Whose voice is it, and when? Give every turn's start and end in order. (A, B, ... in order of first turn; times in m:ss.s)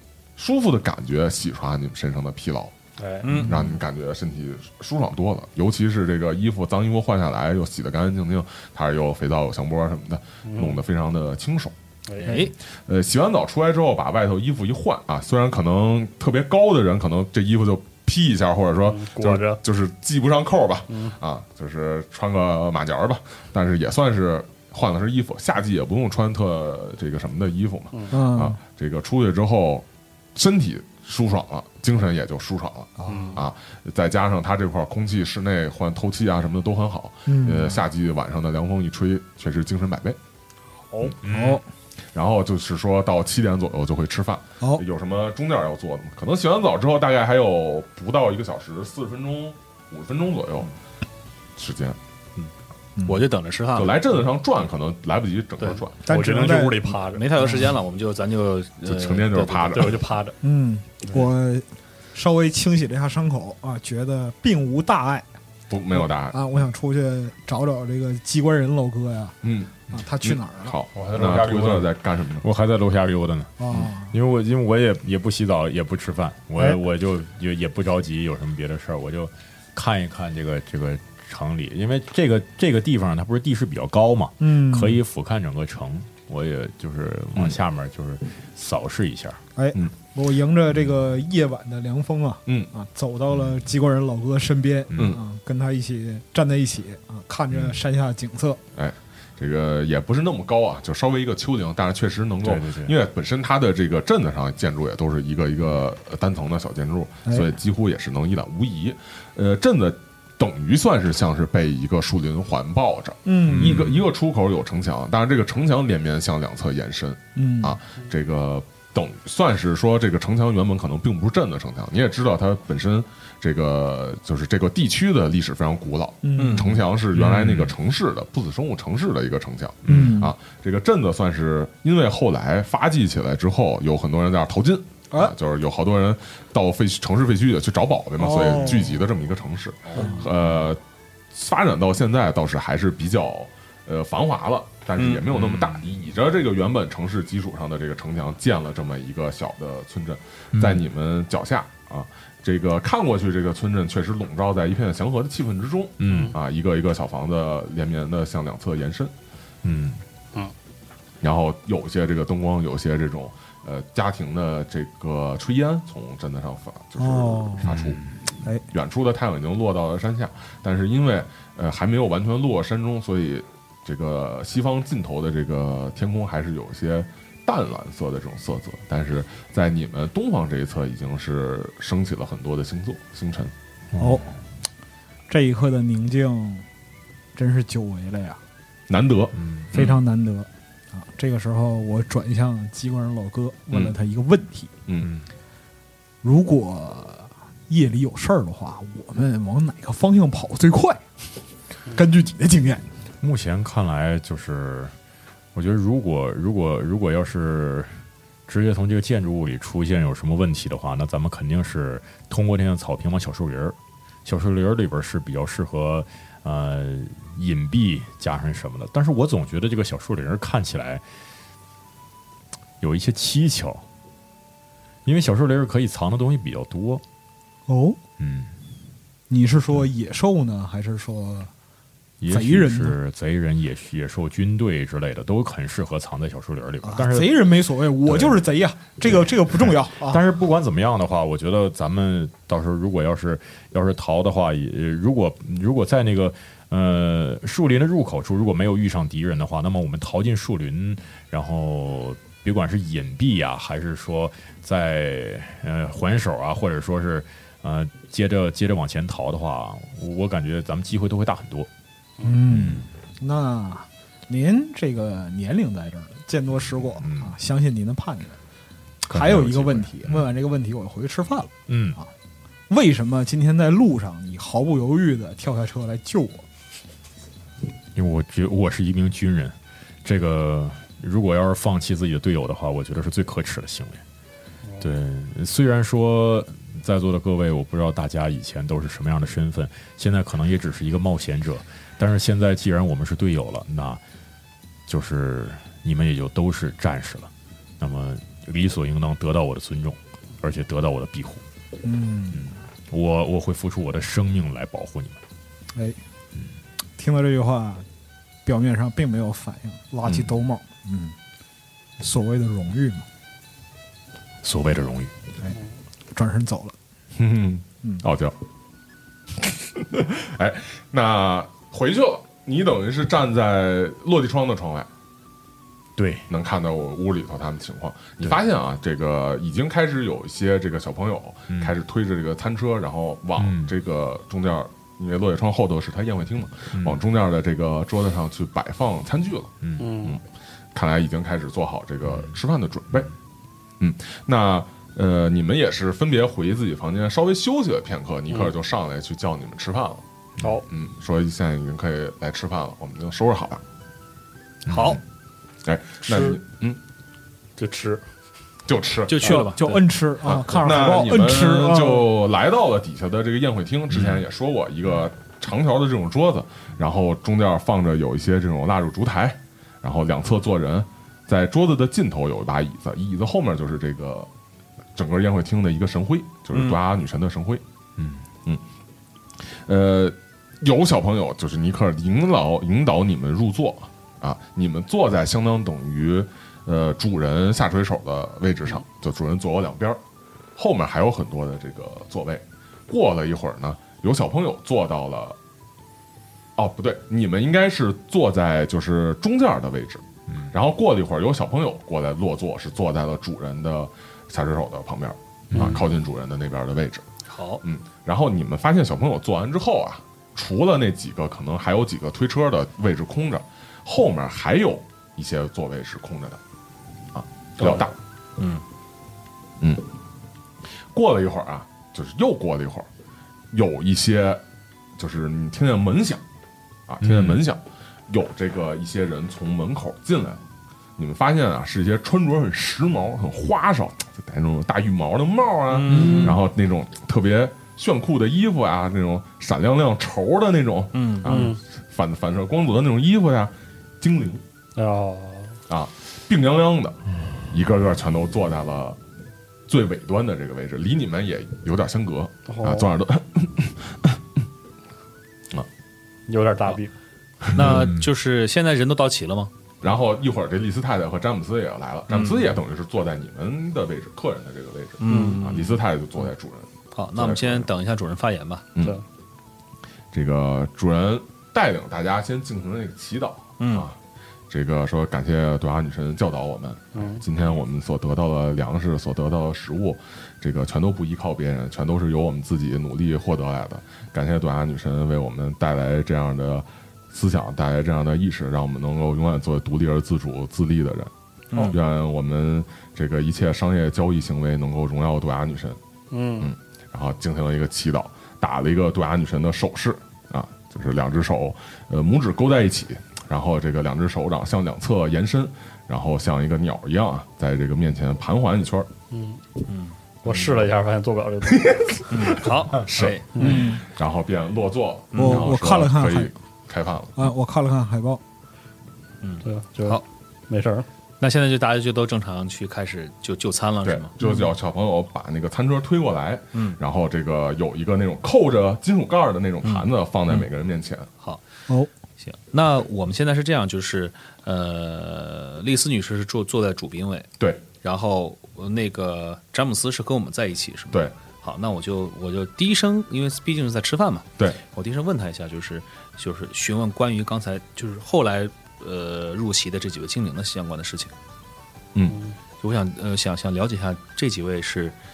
0:00.4-0:02.7 A
0:03.0-0:03.3 B
0:03.2-0:03.6 C
0:03.4-0:11.7 A
0:10.4-0:10.8 B
0:12.1-0:12.4 B
0:12.2-0:12.5 C
0:12.3-0:40.2 A
0:18.8-0:19.6 B
0:20.9-0:21.2 B
0:27.9-0:28.2 B
0:28.1-0:28.6 D
0:33.0-0:33.4 D
0:33.1-0:33.4 B
0:37.2-0:37.8 D
0:41.2-0:41.6 E
0:41.2-0:41.6 D
0:42.1-0:50.7 A
0:51.6-0:52.0 A
0:53.0-0:53.2 D
0:53.0-0:54.0 C
0:53.8-0:56.0 A
0:56.0-0:57.2 B
0:56.0-0:57.7 D
0:57.1-0:59.9 C
0:58.8-1:00.1 A
0:59.7-1:00.4 B
1:00.4-1:05.3 D
1:05.7-1:06.4 A
1:05.9-1:09.4 D
1:09.4-1:12.4 A
1:09.9-1:10.7 D
1:10.9-1:29.4 E
1:13.6-1:14.1 D
1:24.4-1:25.0 D
1:29.6-1:38.6 D
1:34.9-1:35.2 E
1:38.8-2:20.8 A
1:42.4-1:43.0 E
1:53.2-1:53.8 D
1:53.4-1:54.0 E
1:57.4-1:57.8 D
2:06.2-2:06.8 D
2:06.4-2:06.6 C
2:07.1-2:07.7 E
2:09.8-2:10.2 E
2:09.9-2:10.3 D
2:18.2-2:19.0 D
2:19.9-2:20.3 C
2:21.3-2:39.1 A
2:25.3-2:25.8 E
2:30.5-2:30.8 E
2:36.0-2:36.3 E
2:36.0-2:36.3 B
2:39.6-2:40.0 E
2:41.2-2:48.0 A
2:47.0-2:47.8 D
2:47.6-2:48.2 E
2:48.7-3:03.5 A
3:03.9-3:04.3 E
3:04.0-3:04.2 D
3:05.3-3:06.6 D
3:07.3-3:08.4 D
3:08.9-3:09.9 A
3:09.4-3:09.9 E
3:09.7-3:14.7 D
3:15.0-3:15.3 E
3:16.2-3:21.0 D
3:21.9-3:22.8 D
3:23.2-3:24.9 E
3:25.5-3:41.0 E
3:42.8-3:43.8 E
3:45.0-3:47.0 E
3:47.7-3:48.0 D
3:48.2-3:48.5 E
3:49.3-3:51.5 D
3:52.2-3:58.4 E
3:52.3-3:53.0 D
3:56.8-4:00.2 D
3:59.0-4:21.7 E
4:22.2-4:28.4 D
4:22.5-4:22.9 E
4:26.9-4:27.3 E
4:29.0-4:30.3 E
4:29.1-4:32.1 D
4:31.7-4:32.0 E
4:32.7-4:36.4 D
4:37.9-4:44.0 E
4:44.8-4:54.0 E
4:54.9-5:01.4 E
5:01.8-5:02.5 D
5:02.3-5:05.2 E
5:07.0-5:07.8 D
5:08.4-5:11.1 D
5:12.0-5:13.0 D
5:14.4-5:15.1 E
5:16.1-5:16.7 D
5:17.2-5:18.3 A
5:19.4-5:24.9 A
5:26.0-5:26.2 E
5:26.3-5:40.2 A
5:33.4-5:33.7 E
5:36.7-5:37.0 E
5:39.6-5:40.0 E
5:39.8-5:40.2 B
5:40.7-5:43.1 A
5:43.8-5:50.0 A
5:50.7-5:53.6 A
5:54.7-5:55.0 E
5:54.7-5:55.0 C
5:55.6-5:56.8 A
5:56.0-5:56.4 B
5:57.6-5:58.0 B
5:58.7-5:59.4 A
5:59.1-5:59.8 C
5:59.2-6:02.1 D
6:00.2-6:14.3 A
6:03.9-6:04.2 E
6:15.0-6:17.6 A
6:16.5-6:16.8 C
6:18.0-6:18.2 E
6:19.7-6:30.0 A
6:30.6-6:35.4 A
6:36.6-6:47.0 A
6:45.5-6:45.9 E
6:47.3-6:47.6 C
6:47.6-6:56.4 A
6:57.1-6:57.9 A
6:58.4-6:58.6 C
7:00.9-7:02.9 A
7:03.5-7:04.4 A
7:05.0-7:06.2 A
7:06.9-7:10.4 A
7:07.0-7:07.4 E
7:11.0-7:24.4 A
7:15.7-7:16.4 C
7:15.9-7:16.3 E
7:20.9-7:21.4 C
7:21.2-7:21.6 B
7:24.8-7:25.6 B
7:25.7-7:27.0 A
7:27.5-7:29.0 A
7:29.7-7:34.2 A
7:32.5-7:32.9 B
7:36.3-7:36.9 B
7:37.5-7:39.5 C
7:37.6-7:38.1 E
7:39.8-7:47.7 A
7:45.0-7:45.8 C
7:45.0-7:45.4 B
7:46.9-7:48.6 C
7:48.7-7:49.0 A
7:48.8-7:49.0 B
7:50.1-7:54.0 A
7:53.6-7:53.8 C
7:54.5-8:11.1 A
7:56.9-7:57.2 B
8:11.6-8:15.8 A
8:16.1-8:16.5 B
8:16.4-8:28.9 A
8:29.1-8:29.4 B
8:29.7-8:30.5 C
8:30.2-8:31.9 B
8:31.5-8:37.2 A
8:32.1-8:33.5 C
8:33.3-8:33.7 B
8:33.4-8:33.8 D
8:35.1-8:35.4 C
8:35.2-8:36.3 D
8:37.2-8:38.2 D
8:39.2-8:40.0 C
8:39.4-8:40.8 B
8:41.2-8:44.1 C
8:43.8-8:51.1 A
8:46.5-8:46.8 C
8:49.6-8:50.4 C
8:52.2-8:57.3 C
8:57.8-9:11.1 C
9:12.1-9:12.4 B
9:12.6-9:15.0 C